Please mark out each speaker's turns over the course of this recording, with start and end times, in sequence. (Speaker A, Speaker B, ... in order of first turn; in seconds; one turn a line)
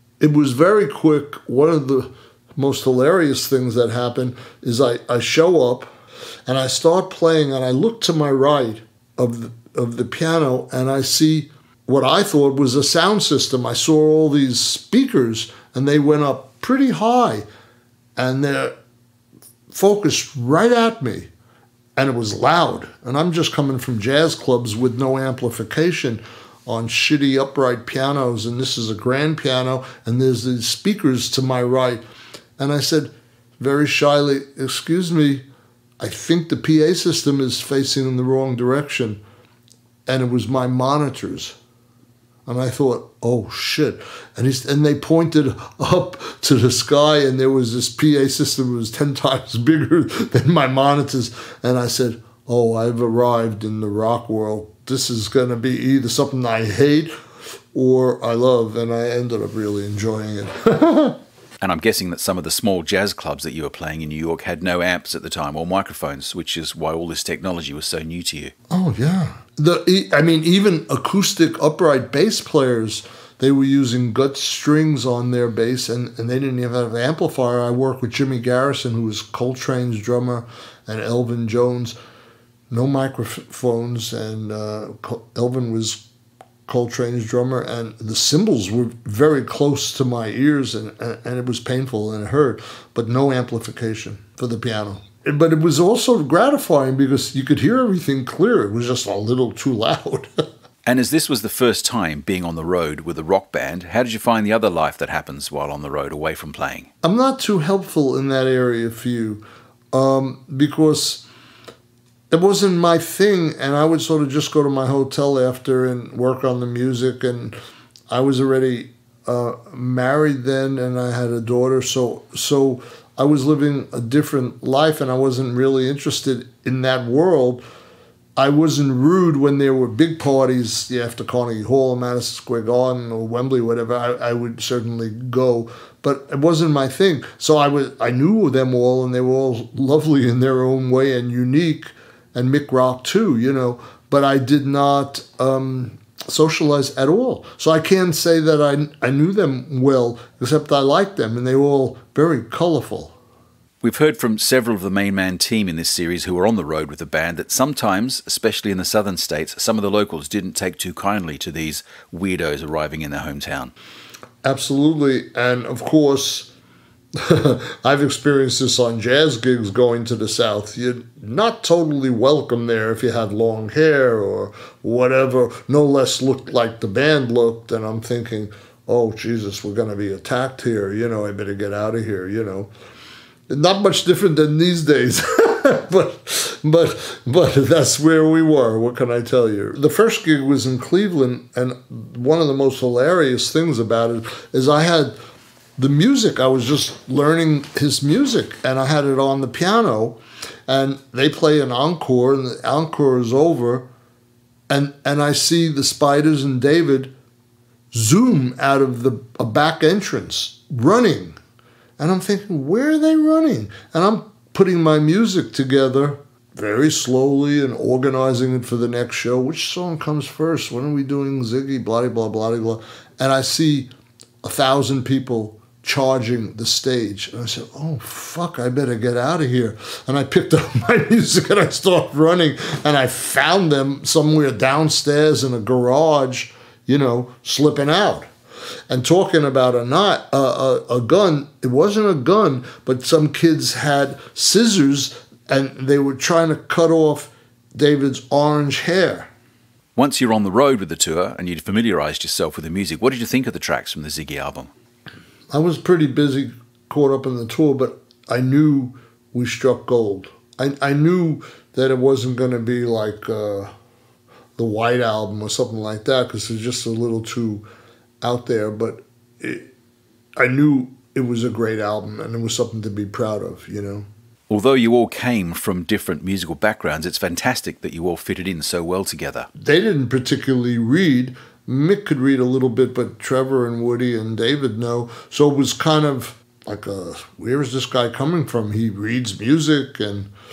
Speaker A: 0.2-5.9
Speaker A: 6.5-17.4
Speaker A: 18.2-18.7
Speaker A: 19.7-21.3
Speaker A: 22.0-32.0
Speaker A: 32.6-35.4
Speaker A: 36.0-39.2
Speaker A: 40.1-41.5
Speaker A: 42.5-57.1
Speaker A: 57.7-61.2
Speaker B: 61.6-68.5
Speaker A: 68.7-82.0
Speaker A: 82.7-86.0
Speaker A: 86.7-100.3
Speaker B: 100.8-106.9
Speaker A: 107.0-111.3
Speaker A: 112.3-117.6
Speaker A: 118.1-127.6
Speaker A: 128.4-153.1
Speaker B: 153.8-163.7
Speaker A: 164.4-166.5
Speaker A: 167.2-182.7
Speaker A: 183.5-195.2
Speaker A: 195.8-203.9
Speaker A: 204.7-207.1
Speaker A: 207.9-211.4
Speaker A: 212.0-223.9
Speaker A: 224.4-238.3
Speaker A: 238.9-249.3
Speaker B: 250.0-254.7
Speaker A: 255.5-263.7
Speaker A: 264.6-267.7
Speaker A: 268.2-269.7
Speaker A: 270.4-274.1
Speaker B: 274.5-279.5
Speaker A: 279.6-290.3